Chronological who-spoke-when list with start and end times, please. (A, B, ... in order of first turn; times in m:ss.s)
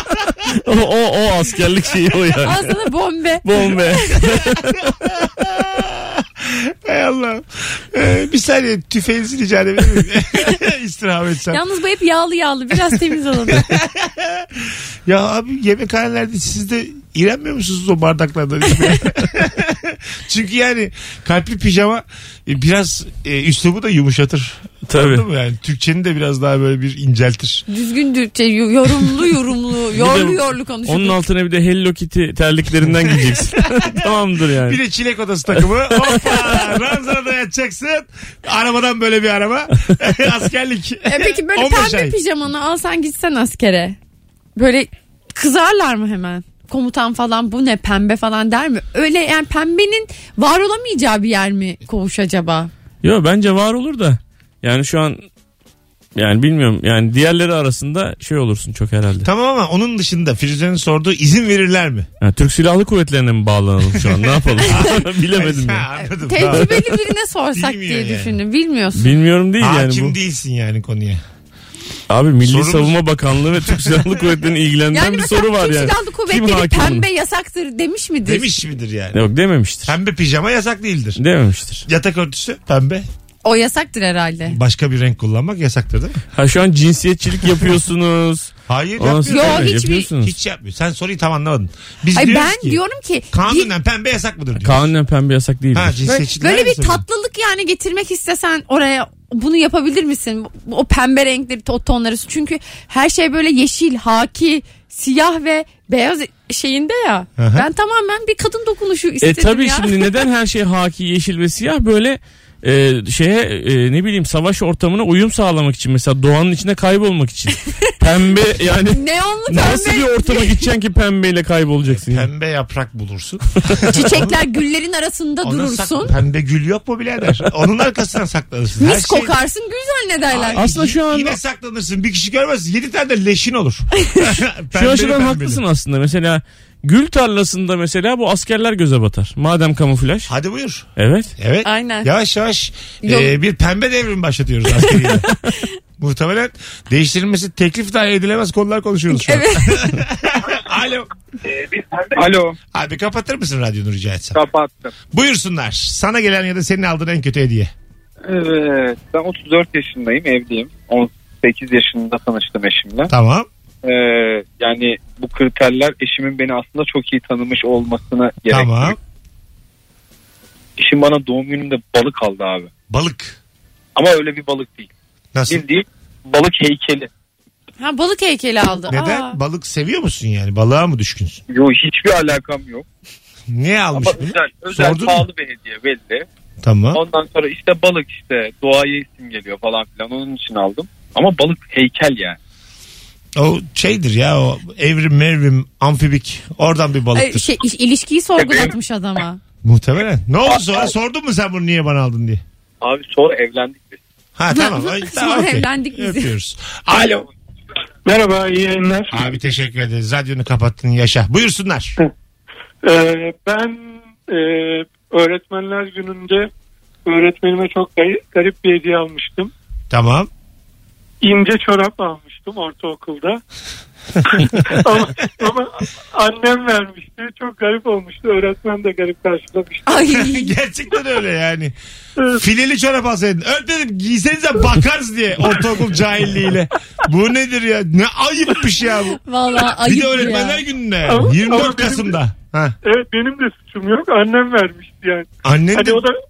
0:00.5-0:02.7 A
0:02.4-0:04.4 B
0:03.4-0:04.8 A
0:04.9-0:11.6 C
0:11.5-0:13.7 B
0:13.0-0:27.6 C
0:24.9-0:25.2 A
0:27.7-0:31.2 B
0:29.9-0:34.8 A
0:33.8-0:42.2 C
0:35.9-0:36.3 A
0:41.0-0:44.0 B
0:44.6-0:52.7 B
0:53.0-0:55.2 A
0:56.1-0:59.3 A
0:59.2-1:02.1 C
1:02.2-1:05.9 A
1:03.9-1:06.9 C
1:06.0-1:09.1 B
1:06.5-1:06.8 A
1:07.5-1:08.4 C
1:09.0-1:10.2 A
1:09.6-1:11.2 C
1:12.1-1:17.0 A
1:12.4-1:14.1 C
1:14.9-1:18.5 B
1:18.2-1:19.2 C
1:19.1-1:19.9 A
1:19.8-1:21.2 C
1:21.2-1:21.8 A
1:21.8-1:23.0 C
1:23.4-1:24.6 B
1:24.5-1:26.2 C
1:26.3-1:30.3 A
1:28.7-1:32.8 C
1:29.3-1:30.1 B
1:32.1-1:33.7 B
1:33.3-1:34.8 C
1:34.6-1:36.0 A
1:35.7-1:37.0 C
1:36.1-1:50.2 B
1:47.4-1:47.6 C
1:49.2-2:02.3 A
1:58.9-2:00.6 B
2:01.9-2:04.4 C
2:03.9-2:06.1 B
2:05.4-2:09.4 C
2:08.8-2:10.6 B
2:10.3-2:15.6 C
2:10.6-2:11.4 A
2:14.0-2:14.3 B
2:14.7-2:20.3 A
2:20.3-2:20.8 C
2:21.0-2:21.3 A
2:21.4-2:25.3 C
2:21.6-2:22.1 B
2:23.0-2:23.3 B
2:24.8-2:25.7 B
2:26.0-2:31.1 C
2:29.1-2:29.9 B
2:31.7-2:32.6 D
2:32.7-2:34.4 C
2:34.3-2:34.9 D
2:35.1-2:37.7 C
2:38.2-2:43.1 D
2:43.1-2:43.5 C
2:43.8-2:49.0 D
2:48.5-2:49.0 C
2:50.8-2:52.7 D
2:52.9-2:53.4 C
2:53.9-2:54.9 D
2:55.3-2:55.6 C
2:55.5-2:57.1 D
2:57.8-2:59.4 B
2:58.9-3:01.4 C
3:01.5-3:02.8 D
3:03.5-3:05.2 C
3:03.9-3:06.2 D
3:06.6-3:07.0 C
3:06.9-3:12.4 D
3:13.4-3:17.5 C
3:17.1-3:19.4 B
3:18.4-3:18.7 D
3:19.6-3:22.4 C
3:20.5-3:20.9 D
3:22.8-3:24.0 D
3:24.4-3:27.2 C
3:24.5-3:26.3 B
3:28.0-3:29.2 E
3:29.1-3:31.9 C
3:32.8-3:36.5 E
3:37.0-3:39.5 E
3:39.9-3:40.3 C
3:41.2-3:43.4 E
3:44.2-3:49.9 E
3:49.9-3:50.5 B
3:50.1-3:51.7 C
3:52.3-4:02.8 C
3:59.2-4:00.6 B
4:01.0-4:02.2 E
4:02.8-4:06.2 E
4:05.4-4:06.0 C